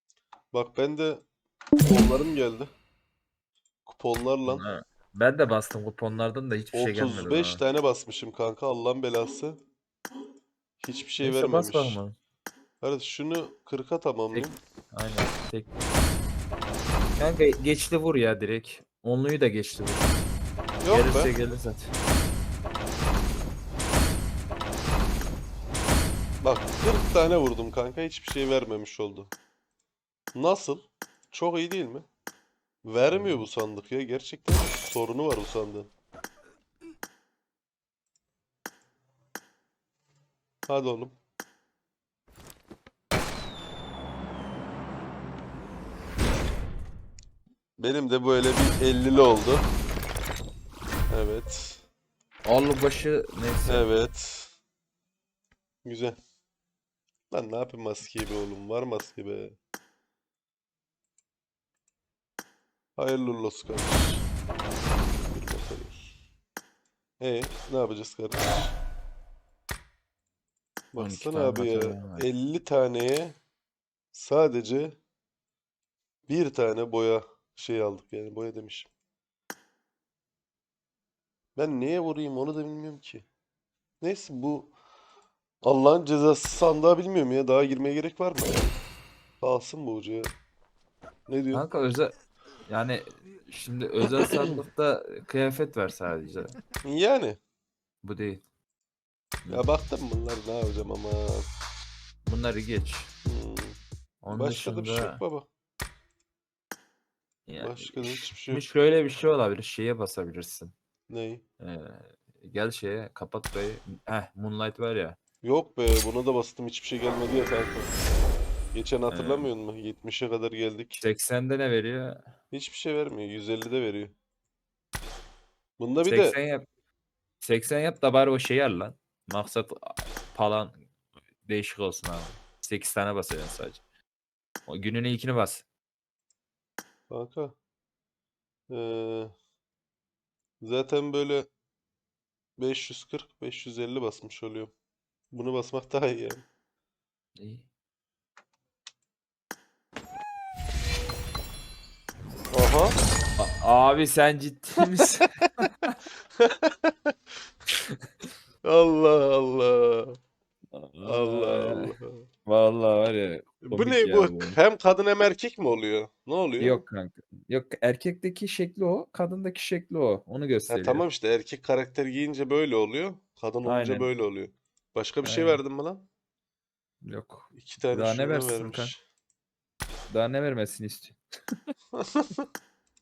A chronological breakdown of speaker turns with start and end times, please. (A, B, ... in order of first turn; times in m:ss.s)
0:00.5-0:01.2 A
0:01.8-0:02.7 A
0:03.9-0:04.6 A
0:04.5-0:07.6 B
0:06.7-0:09.6 A
0:10.8-0:12.0 A
0:11.2-0:12.2 B
0:12.8-0:14.6 A
0:14.3-0:15.8 B
0:17.2-0:20.2 B
0:20.8-0:21.3 A
0:20.9-0:21.9 B
0:26.4-0:29.3 A
0:30.3-0:32.1 A
0:32.8-0:35.9 A
0:33.1-0:33.5 B
0:40.7-0:41.2 A
0:47.8-0:49.7 A
0:51.1-0:51.8 A
0:52.5-0:54.0 B
0:53.7-0:54.6 A
0:55.8-0:56.2 A
0:57.3-0:59.6 A
1:03.0-1:04.3 A
1:05.3-1:06.1 A
1:07.2-1:08.8 A
1:10.9-1:13.4 A
1:11.0-1:12.3 B
1:14.1-1:15.0 A
1:16.3-1:18.9 A
1:21.6-1:23.3 A
1:24.0-1:24.7 A
1:25.6-1:28.7 A
1:29.4-1:30.3 A
1:31.3-1:31.6 A
1:31.5-1:32.1 B
1:32.7-1:36.5 B
1:36.8-1:37.4 A
1:38.0-1:38.4 B
1:39.5-1:41.5 A
1:42.2-1:43.1 B
1:43.2-1:43.8 A
1:44.2-1:45.2 B
1:44.3-1:45.5 A
1:47.5-1:50.7 B
1:47.6-1:48.7 A
1:51.1-1:51.4 A
1:51.6-1:55.2 B
1:55.4-1:57.9 A
1:58.7-2:01.0 A
1:59.1-1:59.5 B
2:01.0-2:02.3 B
2:02.5-2:04.1 A
2:05.8-2:06.4 A
2:06.1-2:06.6 B
2:07.4-2:10.9 B
2:11.4-2:13.8 B
2:14.7-2:15.6 B
2:17.1-2:17.6 A
2:18.7-2:19.4 A
2:20.6-2:21.5 A
2:22.6-2:24.7 A
2:25.3-2:26.4 A
2:27.4-2:27.7 B
2:32.5-2:33.0 A
2:33.4-2:36.0 B
2:36.4-2:37.1 A
2:38.6-2:40.2 A
2:40.7-2:42.0 B
2:41.0-2:42.3 A
2:42.5-2:44.6 B
2:43.6-2:46.8 A
2:46.6-2:51.0 B
2:50.7-2:56.1 A
2:53.6-2:54.1 B
2:55.2-2:55.6 B
2:57.0-2:58.9 B
2:57.5-2:59.0 A
3:00.1-3:01.2 B
3:01.9-3:02.5 A